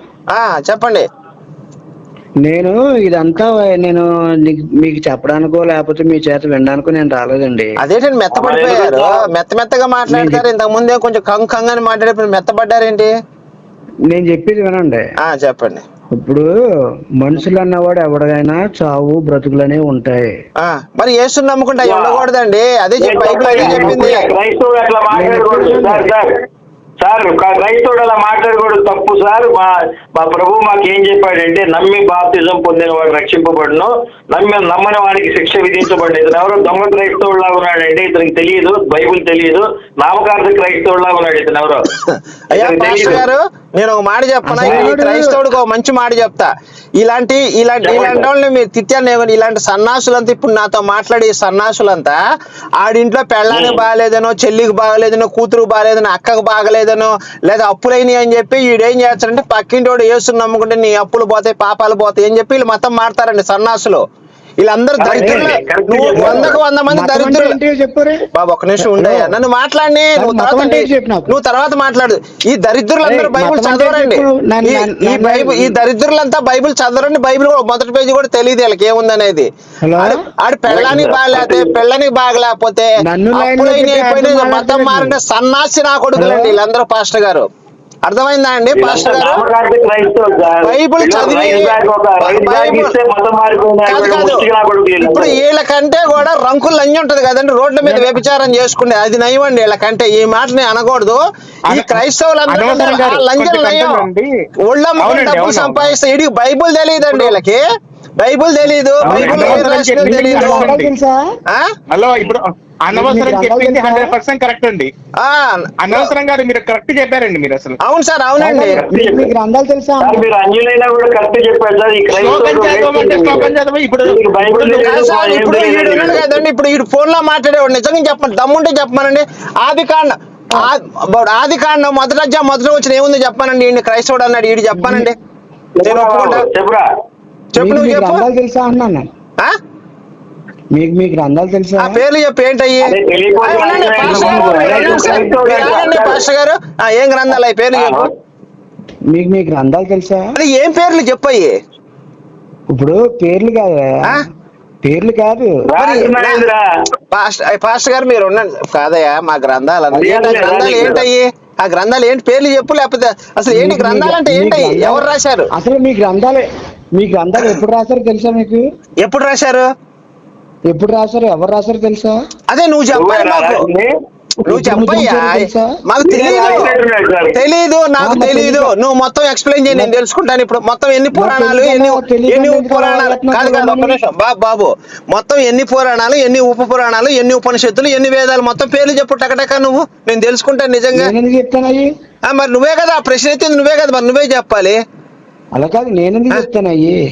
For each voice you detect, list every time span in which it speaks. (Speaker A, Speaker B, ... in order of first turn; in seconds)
Speaker A: 0.3-1.1, 7.8-13.1, 15.2-15.8, 20.6-24.3, 42.5-52.2, 52.8-64.0, 64.6-67.5, 68.3-87.5, 88.0-89.5, 90.6-92.9, 93.9-94.5, 95.0-104.1, 104.7-107.7, 108.2-110.7, 111.5-111.7, 115.2-116.1, 117.8-118.8, 124.8-135.1, 135.8-136.5, 137.6-138.2, 141.8-148.1, 150.3-151.6, 155.8-156.5, 157.1-165.5, 169.0-169.7, 172.5-173.7, 174.5-176.7, 177.3-191.1, 192.3-194.8
Speaker B: 2.4-7.7, 10.1-10.4, 14.1-15.0, 16.1-16.5, 17.2-20.4, 23.6-23.9, 25.1-26.1, 44.5-45.4, 65.1-65.5, 66.2-68.3, 68.8-69.4, 70.2-71.4, 73.0-75.8, 79.8-80.2, 83.0-85.2, 86.2-86.6, 109.1-111.3, 112.9-114.2, 118.4-120.2, 134.8-135.1, 137.6-139.1, 140.7-142.0, 143.9-145.3, 149.1-150.3, 152.7-154.2, 154.8-155.6, 163.5-168.6, 170.7-172.2, 174.5-175.8, 178.0-178.7, 181.1-184.0, 190.9-191.9, 195.6-197.0
Speaker C: 8.3-9.3, 21.8-22.3, 23.0-26.3, 27.0-41.9, 42.5-43.2, 47.8-48.3, 53.5-53.8, 65.0-66.6, 80.7-81.8, 88.7-95.4, 109.1-109.4, 118.7-119.3, 120.0-126.4, 135.8-136.9, 142.8-146.2, 147.7-148.1, 155.7-156.6, 159.9-161.1, 172.9-173.9, 176.0-177.4
Speaker D: 101.7-104.3, 105.0-105.9, 109.0-110.9, 111.9-114.9, 115.8-117.8, 122.1-125.0